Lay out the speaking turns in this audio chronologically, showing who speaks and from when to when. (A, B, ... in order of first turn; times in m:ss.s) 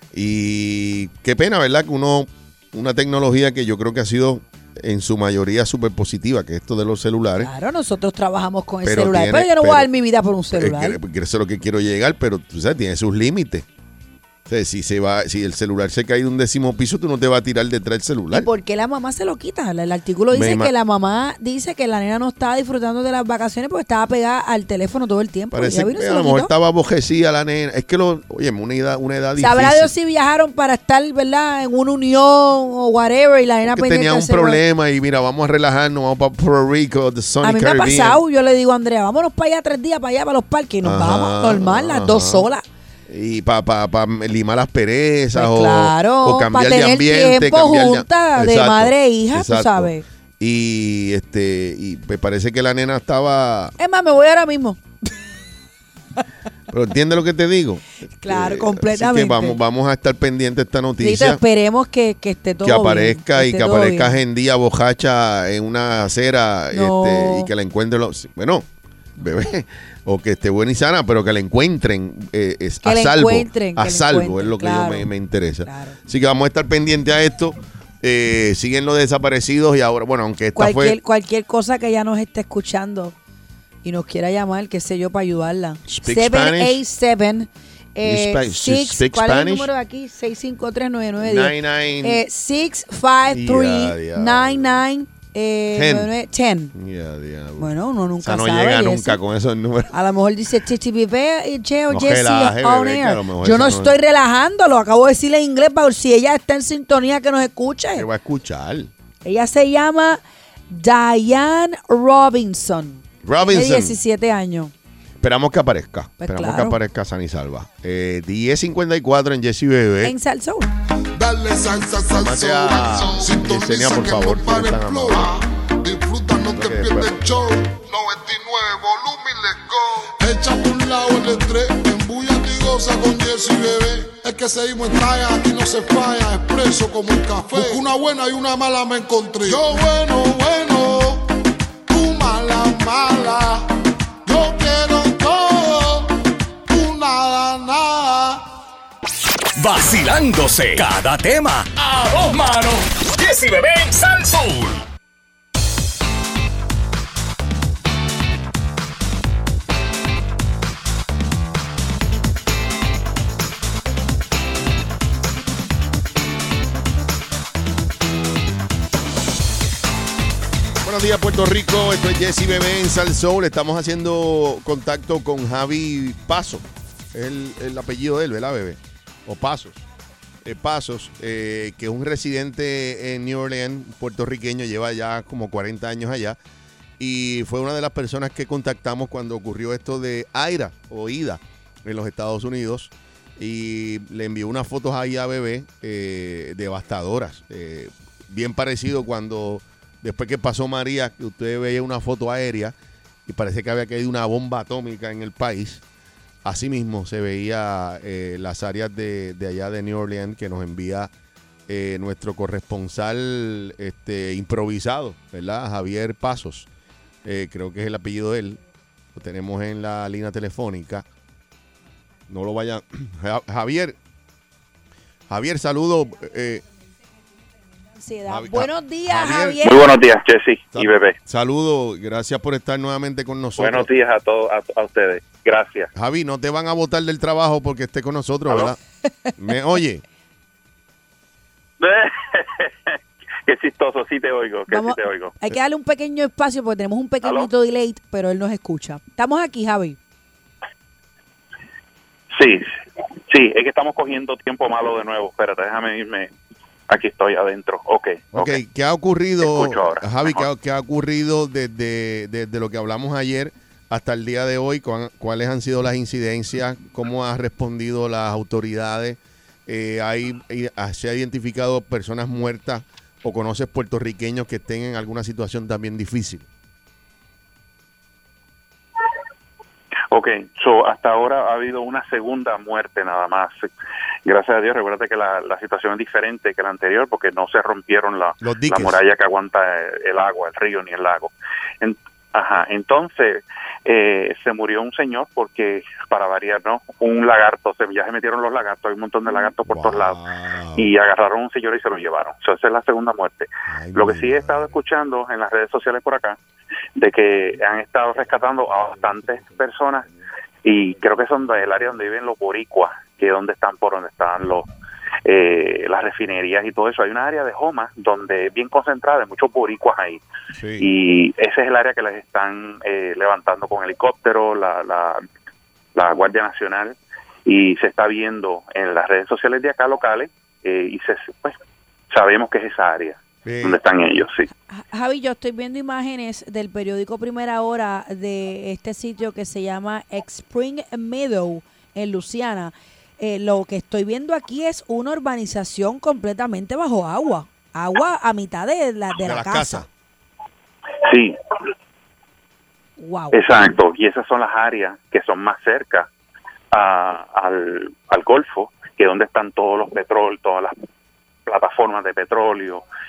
0:00.1-0:07.5 A
0:07.4-0:11.0 B
0:08.8-0:09.9 A
0:10.5-0:13.6 A
0:14.5-0:18.5 A
0:18.3-0:26.5 B
0:20.3-0:20.7 A
0:25.5-0:29.9 A
0:29.4-0:34.6 B
0:33.6-0:38.2 A
0:37.4-0:42.6 B
0:40.8-0:42.5 A
0:43.1-0:53.7 A
0:45.3-0:50.0 B
0:53.8-0:54.8 B
0:56.7-1:01.4 A
0:58.2-0:59.6 B
1:01.0-1:04.2 B
1:02.6-1:21.0 A
1:06.7-1:07.5 B
1:12.8-1:15.1 B
1:15.6-1:16.0 B
1:20.6-1:23.1 B
1:23.8-1:36.7 B
1:25.9-1:26.8 A
1:28.0-1:29.7 A
1:31.2-1:32.2 A
1:33.3-1:34.8 A
1:35.7-1:36.1 A
1:36.7-1:39.9 A
1:37.6-1:39.2 B
1:39.9-1:48.1 B
1:41.9-1:44.0 A
1:47.9-1:48.9 A
1:49.2-1:54.7 B
1:53.2-1:54.0 A
1:55.2-2:00.1 A
1:56.2-1:56.8 B
2:00.0-2:00.7 B
2:01.1-2:21.3 C
2:02.1-2:05.3 A
2:06.5-2:07.2 A
2:21.9-2:23.7 C
2:24.2-2:26.1 C
2:26.7-2:28.4 C
2:29.6-2:34.8 D
2:50.8-2:59.8 A
3:00.4-3:06.4 A
3:07.0-3:22.7 A
3:23.2-3:25.8 A
3:26.4-3:31.1 A
3:31.7-3:36.7 A
3:37.2-3:38.6 A
3:39.1-3:41.0 A
3:42.3-3:44.0 A
3:45.3-3:46.6 A
3:47.9-3:49.9 B
3:48.3-3:49.8 A
3:49.6-3:51.2 E
3:50.7-3:53.9 A
3:53.6-3:55.9 E
3:55.9-3:58.8 A
3:58.5-3:58.7 E
3:59.4-4:00.0 A
4:01.8-4:05.3 E
4:04.7-4:10.0 B
4:12.3-4:12.7 E
4:13.3-4:16.3 E
4:16.9-4:18.6 E
4:18.3-4:36.5 A
4:19.4-4:20.4 E
4:40.1-4:43.6 E
4:44.2-5:00.2 E
4:48.4-4:49.0 A
4:59.7-5:00.9 A
5:00.8-5:06.4 E
5:03.7-5:04.6 A
5:07.0-5:10.1 E
5:10.6-5:14.7 E
5:15.2-5:20.2 E
5:20.5-5:20.9 A
5:20.8-5:25.2 E
5:25.9-5:31.6 E
5:32.1-5:34.5 E
5:33.4-5:33.8 A
5:34.7-5:49.8 B
5:49.2-5:49.9 A
5:51.0-5:51.4 E
5:53.0-5:53.4 B
5:53.3-5:56.1 E
5:56.7-6:00.8 E
6:01.4-6:02.8 E